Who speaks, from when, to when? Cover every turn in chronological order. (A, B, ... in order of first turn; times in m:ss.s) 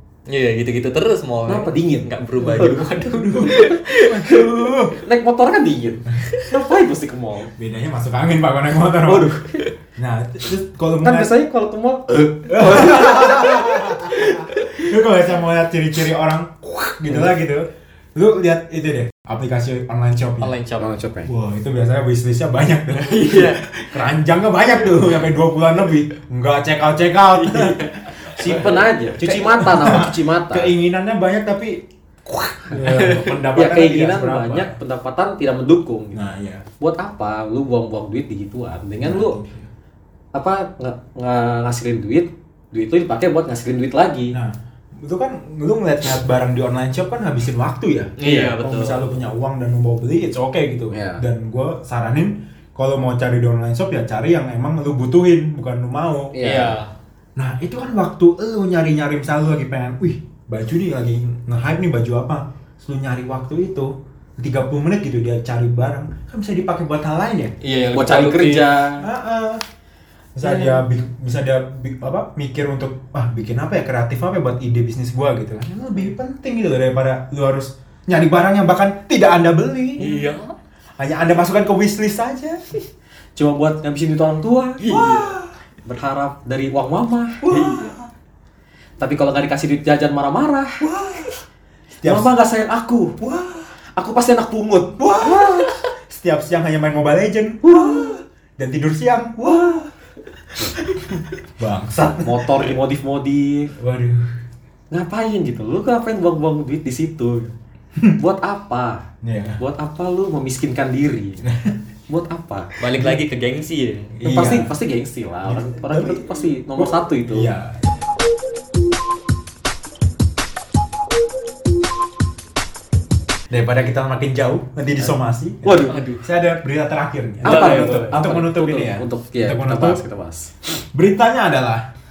0:00.3-0:04.5 A
0:01.5-0:03.0 B
0:02.4-0:05.0 C
0:05.0-0:07.5 B
0:07.5-0:09.3 C
0:09.0-0:09.7 B
0:10.0-0:11.3 C
0:11.0-0:14.5 B
0:12.5-0:20.5 C
0:20.4-0:20.9 A
0:20.8-0:21.3 B
0:21.2-0:31.8 C
0:23.1-0:23.8 A
0:27.3-0:28.7 A
0:28.3-0:30.7 B
0:32.4-0:34.8 C
0:32.7-0:33.4 A
0:33.5-0:39.4 B
0:36.1-0:36.6 C
0:39.0-0:39.7 C
0:40.3-0:44.4 B
0:44.3-0:56.4 C
0:48.2-0:49.2 A
0:48.2-0:48.6 B
0:50.9-0:51.2 B
0:56.3-0:56.8 B
0:56.4-0:56.9 A
0:57.4-1:07.6 C
1:07.6-1:08.8 A
1:07.9-1:09.1 B
1:09.0-1:09.6 C
1:10.3-1:20.1 C
1:10.4-1:10.8 B
1:20.0-1:20.3 B
1:20.0-1:20.5 A
1:21.0-1:22.6 C
1:23.4-1:25.1 B
1:24.8-1:25.4 A
1:24.8-1:25.5 C
1:25.8-1:27.5 B
1:27.4-1:28.1 C
1:27.5-1:27.9 A
1:29.0-1:30.8 B
1:30.8-1:31.4 C
1:32.0-1:32.3 C
1:32.0-1:33.2 B
1:33.2-1:33.6 C
1:34.0-1:35.7 B
1:35.0-1:39.9 C
1:37.6-1:38.2 B
1:39.5-1:39.8 B
1:40.7-1:42.7 C
1:42.0-1:43.7 B
1:43.8-1:44.3 C
1:44.9-1:47.5 B
1:48.2-1:49.0 B
1:49.2-1:49.6 C
1:49.6-1:51.4 B
1:51.4-1:51.8 C
1:52.1-1:52.7 B
1:52.8-1:54.2 A
1:54.2-1:54.7 C
1:54.2-1:57.5 B
1:55.4-1:57.9 C
2:03.5-2:10.0 C
2:05.0-2:06.0 B
2:05.9-2:06.2 A
2:07.4-2:10.5 B
2:07.4-2:08.2 A
2:10.8-2:11.9 C